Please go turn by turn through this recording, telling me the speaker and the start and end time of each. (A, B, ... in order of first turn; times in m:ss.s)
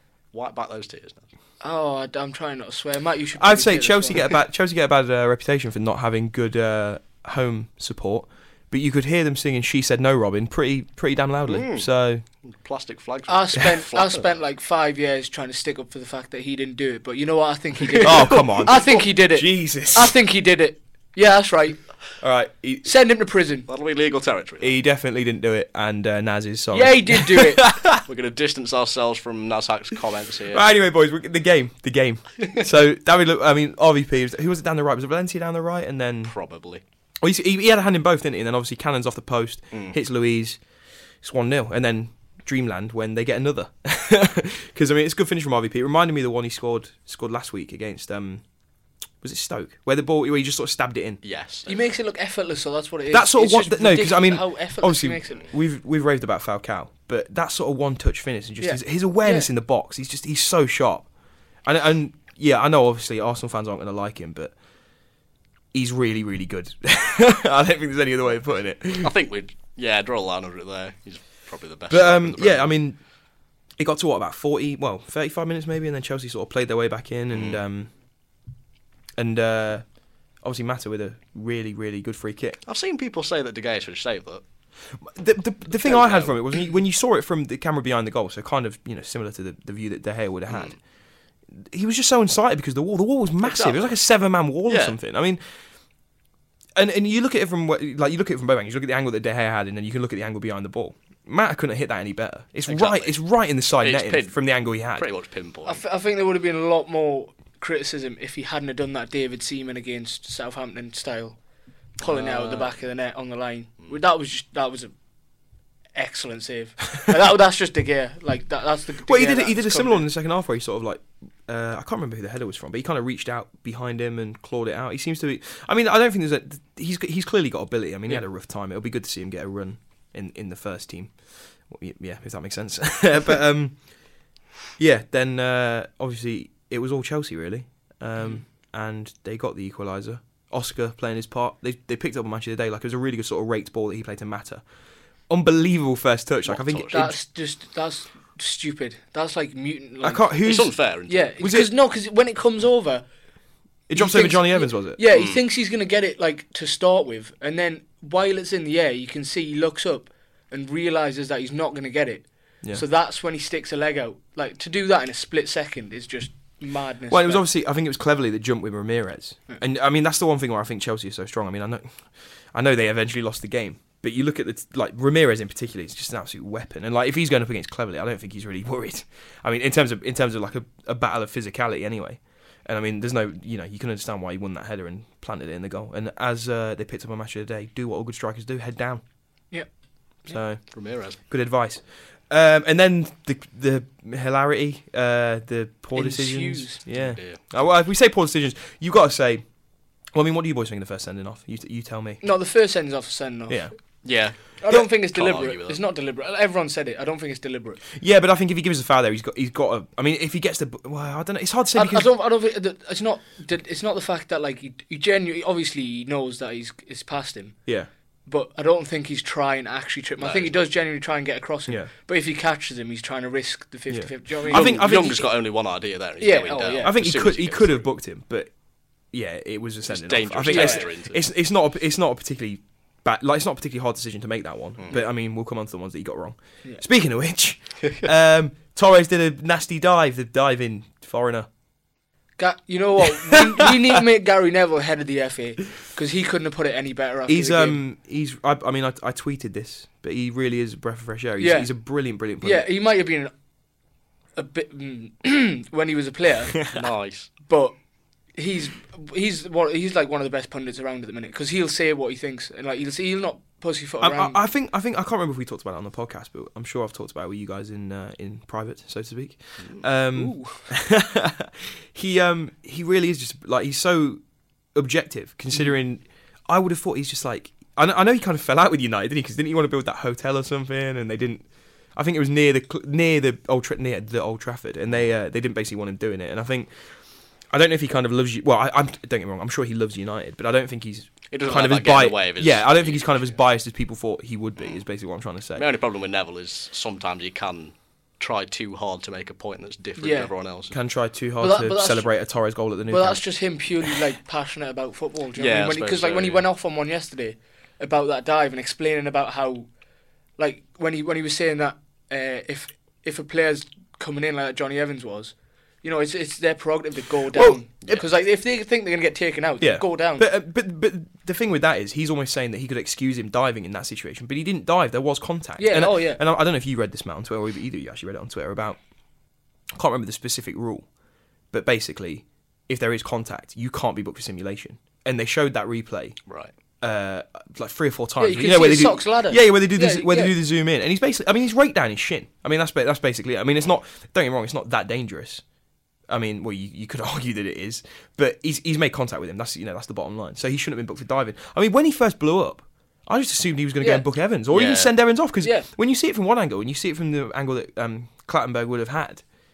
0:00.3-0:01.2 A
0:01.6-0:04.3 B
0:03.4-0:12.2 C
0:11.5-0:11.9 A
0:12.4-0:14.4 A
0:13.3-0:22.0 B
0:18.0-0:20.2 C
0:22.2-0:22.9 C
0:22.8-0:23.7 B
0:23.7-0:24.8 A
0:24.6-0:28.0 C
0:26.7-0:27.7 B
0:27.9-0:30.6 A
0:30.5-0:36.4 C
0:36.3-0:36.8 A
0:37.2-0:40.6 C
0:41.2-0:48.5 C
0:49.2-0:51.2 C
0:51.2-0:51.7 A
0:51.7-0:55.5 B
0:53.1-1:01.1 C
0:58.6-0:59.5 B
1:01.6-1:04.6 C
1:05.7-1:09.1 C
1:09.0-1:12.7 A
1:11.9-1:13.0 C
1:13.8-1:17.9 C
1:17.3-1:17.6 A
1:19.2-1:22.6 C
1:22.7-1:24.4 A
1:25.0-1:30.8 C
1:25.7-1:26.6 A
1:30.5-1:30.8 A
1:31.5-1:35.6 C
1:33.4-1:34.0 A
1:34.7-1:35.0 A
1:36.8-1:45.1 C
1:42.7-1:45.8 A
1:45.6-1:51.4 B
1:52.0-1:54.9 B
1:52.0-1:52.8 A
1:55.9-2:00.1 B
1:59.0-2:14.2 C
2:14.8-2:24.7 C
2:18.2-2:18.4 B
2:25.3-2:27.2 C
2:26.5-2:27.0 A
2:26.9-2:30.4 B
2:30.0-2:30.9 C
2:30.4-2:31.3 A
2:31.1-2:33.1 B
2:31.4-2:31.7 C
2:33.9-2:47.4 B
2:33.9-2:35.0 C
2:35.1-2:35.4 A
2:47.1-3:09.0 C
3:09.5-3:10.4 B
3:10.3-3:22.3 C
3:10.7-3:11.2 A
3:16.0-3:16.8 B
3:16.9-3:17.5 A
3:22.2-3:27.8 B
3:23.5-3:24.0 C
3:24.0-3:25.8 A
3:28.0-3:32.1 C
3:31.7-3:44.9 B
3:40.2-3:40.6 A
3:43.9-3:45.3 C
3:44.4-3:47.9 A
3:46.2-3:47.0 B
3:46.8-4:01.5 C
3:49.9-3:51.2 A
3:50.5-3:50.8 B
4:02.4-4:07.8 B
4:07.3-4:12.7 C
4:11.4-4:11.8 B
4:12.4-4:13.3 B
4:14.4-4:24.4 B
4:16.7-4:17.3 A
4:24.0-4:46.7 C
4:29.6-4:29.8 A
4:30.2-4:30.7 B
4:47.5-4:55.7 C
4:51.3-4:53.4 A
4:55.6-5:00.8 A
5:00.0-5:00.3 B
5:00.7-5:03.2 C
5:01.4-5:02.1 B
5:02.9-5:09.7 B
5:05.4-5:06.4 A
5:10.4-5:20.3 B
5:17.3-5:18.1 C
5:19.6-5:28.8 C
5:25.6-5:26.2 B
5:29.7-5:30.9 C
5:31.5-5:36.2 C
5:36.3-5:36.5 A
5:36.8-5:45.4 C
5:38.2-5:40.4 B
5:46.1-5:59.2 C
5:53.8-5:54.1 B
5:54.5-5:54.9 A
5:55.4-5:55.7 B